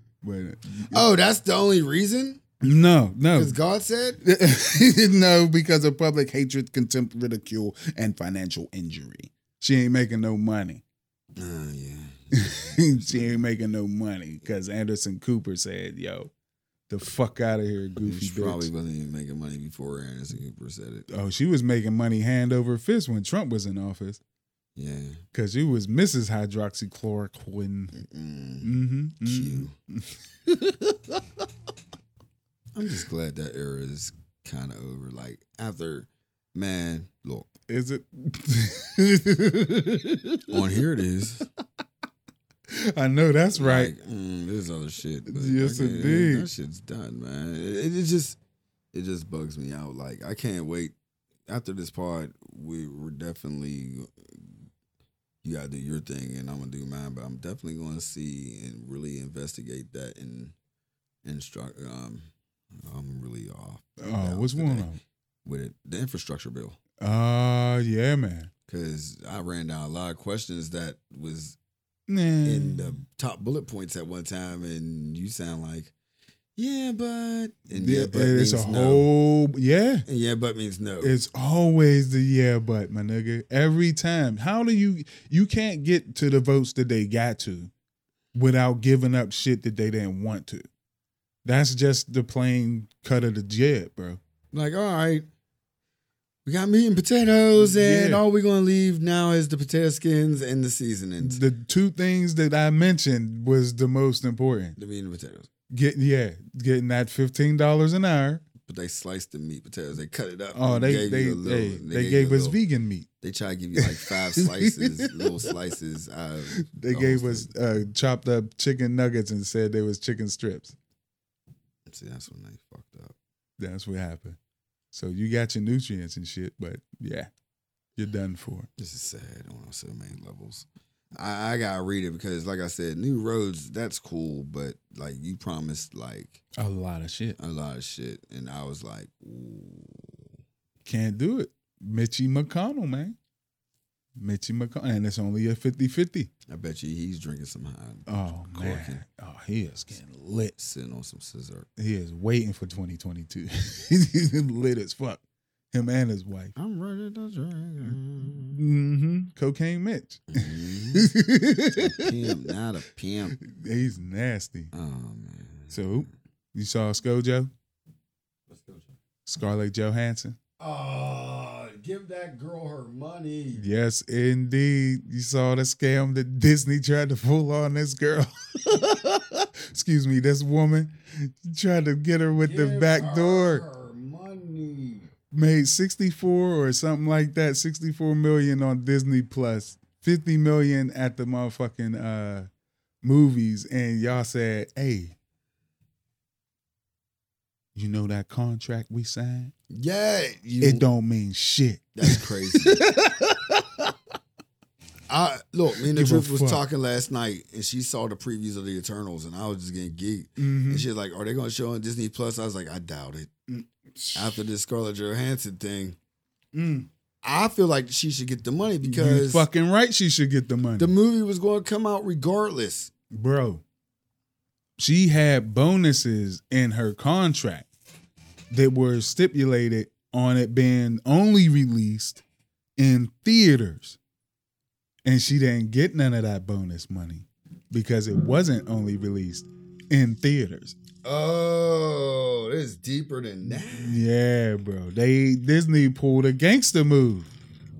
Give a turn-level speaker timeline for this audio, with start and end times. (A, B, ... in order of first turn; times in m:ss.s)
0:00.2-0:01.1 A
0:00.9-0:02.4 B
0:02.6-0:03.6 A
0:03.3-0:04.2 B
0:04.2-0:10.8 A
0:11.4-0:13.4 B
0:12.3-0:16.3 A
0:16.9-0:18.7 A
0:18.0-0:21.1 B
0:21.1-0:24.2 A
0:24.8-0:25.2 B
0:25.3-0:27.9 A
0:27.9-0:29.7 B
0:28.6-0:31.2 A
0:32.7-0:37.5 B
0:37.7-0:40.6 A
0:40.5-0:41.4 B
0:42.7-0:43.9 A
0:43.5-0:48.4 B
0:45.3-0:46.5 A
0:48.9-0:50.9 B
0:51.5-0:54.5 B
0:55.4-1:00.5 B
1:01.2-1:04.9 B
1:04.0-1:05.0 A
1:05.4-1:06.8 B
1:07.0-1:08.5 A
1:08.7-1:11.6 B
1:12.1-1:13.0 A
1:12.4-1:15.9 B
1:16.6-1:19.1 B
1:17.7-1:20.0 A
1:20.1-1:21.1 B
1:21.0-1:27.7 A
1:28.3-1:30.7 A
1:31.4-1:34.2 A
1:34.5-1:35.2 B
1:36.4-1:41.4 B
1:37.6-1:38.2 A
1:41.2-1:44.8 A
1:44.8-1:45.5 B
1:45.7-1:48.4 A
1:48.6-1:52.6 B
1:50.5-1:53.1 A
1:53.2-1:57.5 B
1:53.8-1:55.3 A
1:56.6-2:00.7 A
2:01.8-2:03.2 B
2:03.6-2:04.4 A
2:04.9-2:07.3 A
2:08.0-2:08.7 A
2:08.8-2:16.4 B
2:16.6-2:17.4 A
2:17.4-2:20.3 B
2:20.8-2:23.2 A
2:24.2-2:26.3 A
2:26.5-2:29.0 B
2:28.1-2:30.5 A
2:30.6-2:31.7 B
2:31.8-2:36.5 A
2:36.5-2:38.6 B
2:37.8-2:42.3 A
2:40.3-2:41.1 B
2:41.8-2:43.4 B
2:43.4-2:44.7 A
2:44.7-2:46.1 B
2:45.7-2:47.5 A
2:48.5-2:48.9 B
2:49.2-2:50.4 A
2:50.6-2:53.6 B
2:53.6-3:03.6 A
3:02.4-3:05.1 B
3:05.3-3:12.5 A
3:13.0-3:15.1 A
3:17.7-3:19.5 A
3:19.7-3:20.8 B
3:20.6-3:23.9 A
3:22.0-3:22.8 B
3:25.1-3:33.3 B
3:25.8-3:26.6 A
3:30.4-3:30.9 A
3:33.5-3:34.4 A
3:34.1-3:36.0 B
3:36.5-3:36.9 A
3:37.2-3:39.4 B
3:38.8-3:40.9 A
3:40.8-3:42.9 B
3:43.1-3:43.6 A
3:44.8-3:47.7 A
3:48.5-3:52.2 A
3:52.8-3:54.0 A
3:55.0-4:00.8 A
4:01.0-4:04.0 B
4:03.5-4:07.3 A